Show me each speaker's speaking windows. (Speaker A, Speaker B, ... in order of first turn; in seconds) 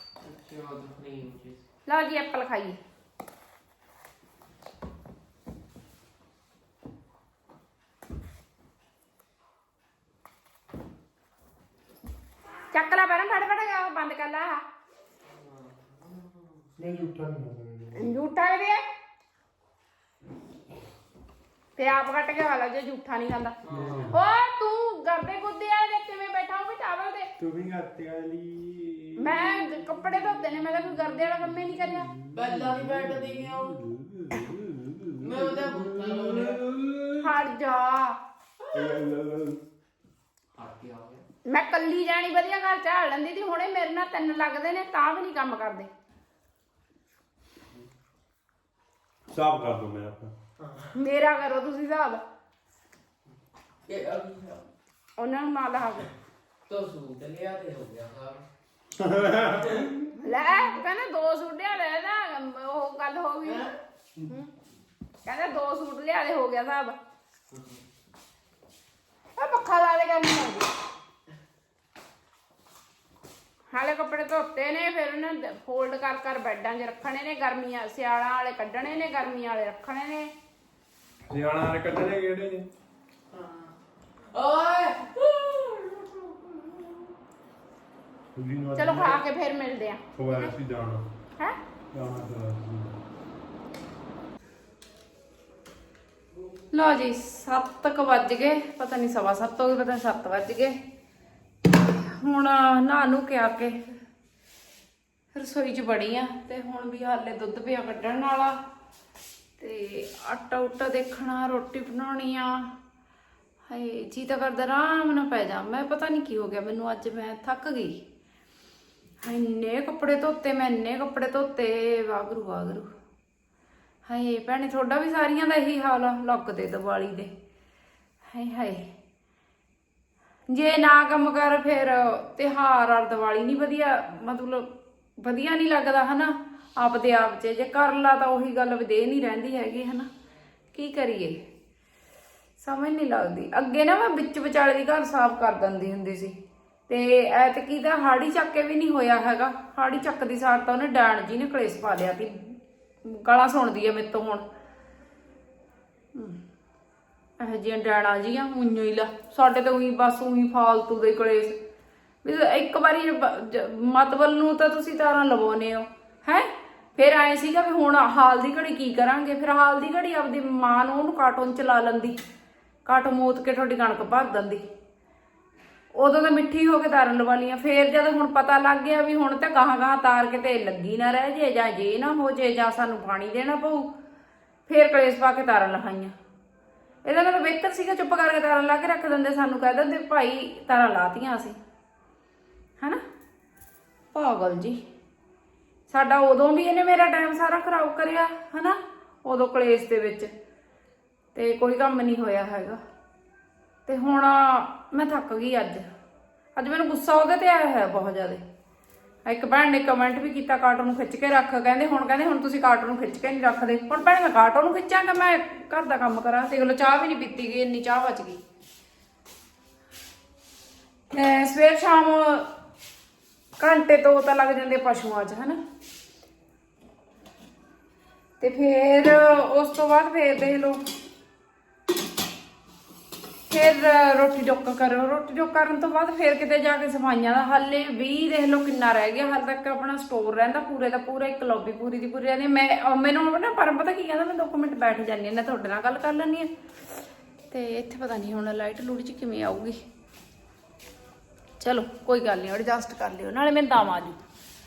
Speaker A: 0.2-1.6, 15.3-16.7, 23.6-24.2, 32.3-33.8, 35.2-36.7, 40.5-41.2, 50.6-50.9, 53.9-54.7, 56.7-58.4, 63.4-64.5, 67.5-67.8, 83.3-83.7, 84.3-87.0
Speaker B: 1.9-2.8, 12.7-14.6, 17.9-18.8, 21.8-23.6, 24.1-27.3, 29.2-32.1, 37.2-38.2, 41.4-45.9, 50.9-52.2, 55.2-56.1, 60.1-63.7, 65.2-67.0, 69.3-70.7, 73.7-80.3, 88.8-90.5, 96.7-100.8, 101.7-103.8, 105.3-108.6, 109.6-112.7, 113.7-118.0, 119.2-122.9, 124.0-127.3, 128.3-128.9, 130.5-140.1, 140.7-141.4, 142.6-146.3, 146.9-154.4, 156.1-156.4, 157.4-161.6, 162.2-172.2, 172.8-174.6, 175.9-183.9, 184.7-186.1, 187.0-191.6, 194.1-194.8, 195.9-200.3, 201.3-202.8, 203.8-205.8, 206.5-208.4, 209.2-218.4, 221.1-222.5, 223.6-225.6, 228.4-230.8, 233.5-249.8, 251.6-254.2
Speaker C: 16.8-18.1, 23.7-24.2, 27.4-29.6, 32.3-37.3, 38.7-39.6, 49.3-50.3, 59.0-59.9, 81.3-82.7, 88.3-89.2, 90.2-91.0, 91.9-93.0